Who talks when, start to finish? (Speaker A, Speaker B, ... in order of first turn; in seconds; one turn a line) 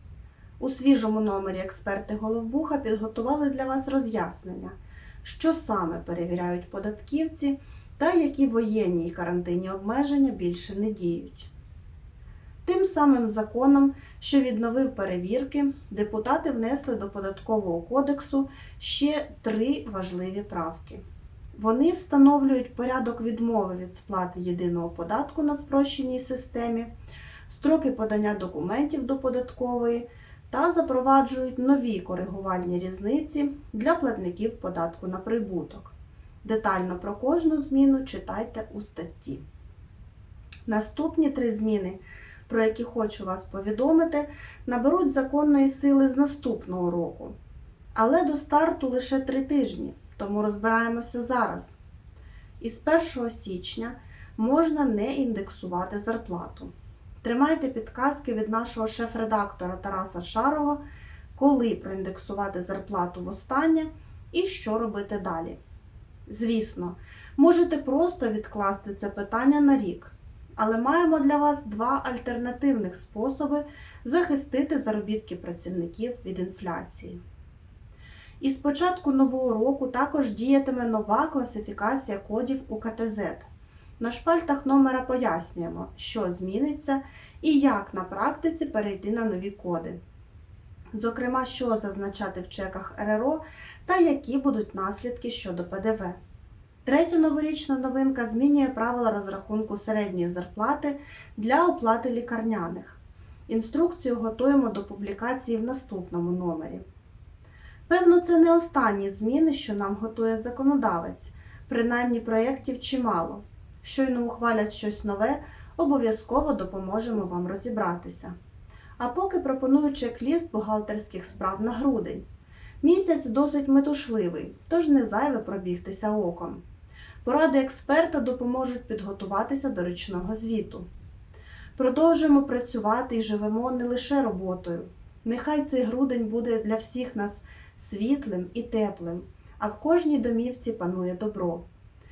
Speaker A: 0.6-11.5
Speaker A: 12.7-21.0
Speaker A: 21.5-26.9
Speaker A: 27.5-39.4
Speaker A: 40.7-47.3
Speaker A: 47.9-51.7
Speaker A: 52.6-60.8
Speaker A: 61.3-65.6
Speaker A: 66.3-77.2
Speaker A: 78.4-83.5
Speaker A: 84.0-90.0
Speaker A: 90.9-96.2
Speaker A: 96.8-106.8
Speaker A: 107.9-118.3
Speaker A: 119.0-122.2
Speaker A: 122.8-126.6
Speaker A: 127.2-130.8
Speaker A: 131.8-141.7